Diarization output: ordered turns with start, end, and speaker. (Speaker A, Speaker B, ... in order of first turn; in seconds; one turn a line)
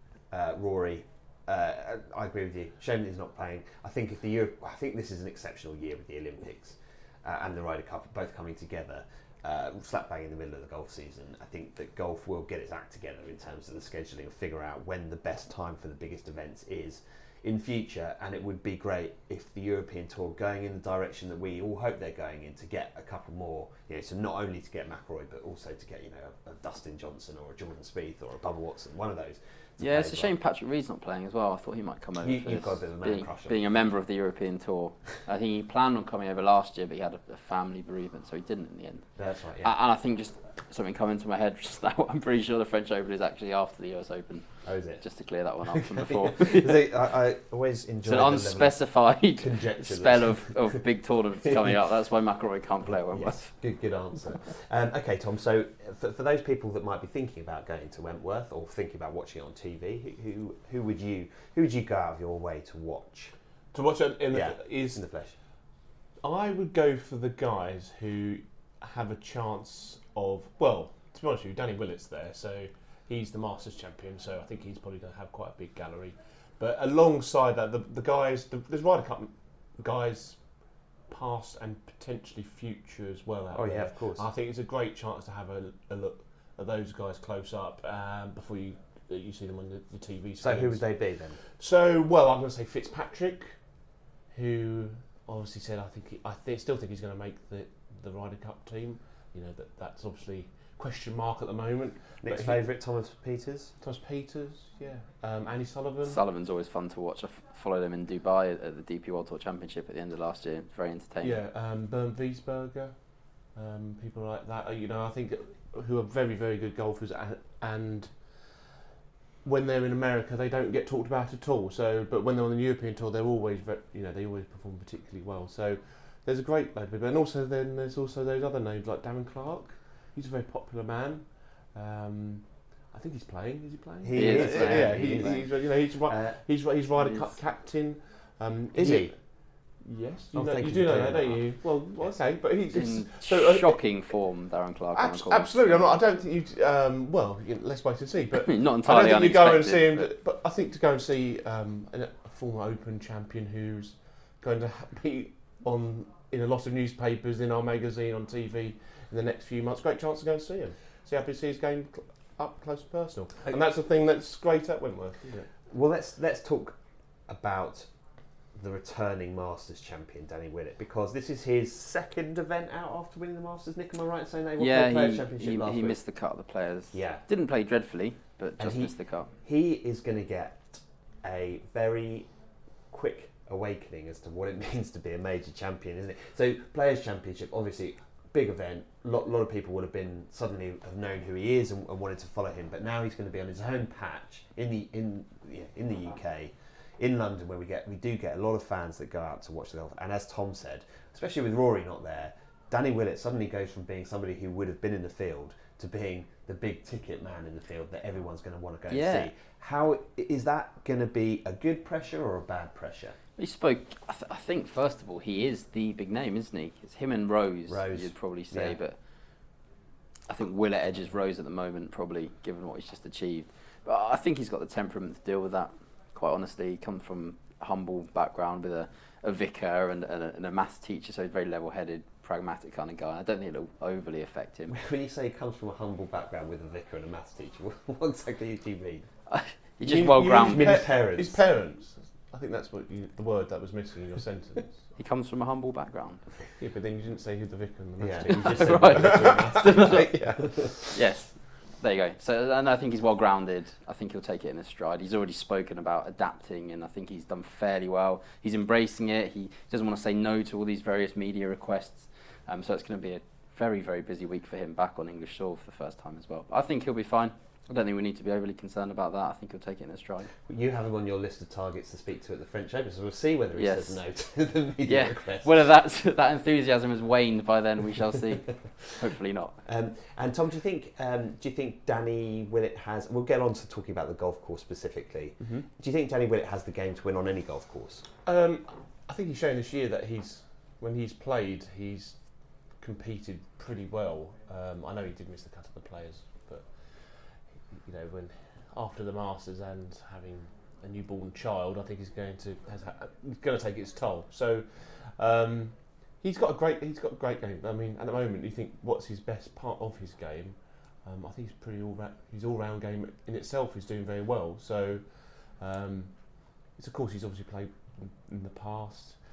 Speaker A: 0.3-30.3
Speaker B: 29.8-39.1
Speaker A: 32.2-33.5
Speaker A: 39.2-39.7
Speaker B: 39.6-44.5
Speaker A: 44.6-45.0
Speaker B: 45.0-46.9
Speaker A: 45.7-48.8
Speaker B: 48.0-53.5
Speaker A: 49.4-50.8
Speaker A: 51.5-51.8
Speaker A: 53.0-63.3
Speaker C: 63.7-65.0
Speaker A: 64.3-65.3
Speaker C: 66.2-80.4
Speaker C: 81.1-90.8
Speaker A: 83.5-84.2
Speaker A: 90.4-91.4
Speaker C: 91.5-93.5
Speaker C: 94.3-102.6
Speaker A: 102.2-103.7
Speaker C: 103.8-106.2
Speaker B: 106.0-111.4
Speaker C: 111.2-112.9
Speaker C: 113.5-118.1
Speaker C: 119.4-139.1
Speaker A: 134.0-136.4
Speaker B: 134.1-135.3
Speaker A: 138.8-139.1
Speaker C: 139.8-143.8
Speaker A: 140.3-141.5
Speaker B: 142.7-146.0
Speaker C: 144.9-165.5
Speaker B: 148.4-150.1
Speaker A: 165.7-167.9
Speaker A: 168.6-176.0
Speaker B: 174.6-179.3
Speaker A: 176.9-177.2
Speaker A: 178.6-182.3
Speaker A: 182.9-213.2
Speaker B: 208.9-209.3
Speaker B: 213.4-218.9
Speaker A: 217.7-218.8
Speaker B: 220.3-234.8
Speaker A: 234.7-239.1
Speaker B: 239.3-240.8
Speaker C: 239.8-244.8
Speaker A: 240.3-241.4
Speaker B: 245.0-246.2
Speaker C: 246.6-250.8
Speaker A: 248.0-250.9
Speaker B: 248.3-250.1
Speaker B: 250.9-270.3
Speaker A: 270.5-275.5
Speaker B: 273.5-274.0
Speaker B: 274.8-279.6
Speaker A: 279.6-288.1
Speaker C: 285.4-285.6
Speaker C: 288.2-292.1
Speaker C: 292.8-316.1
Speaker C: 316.8-319.2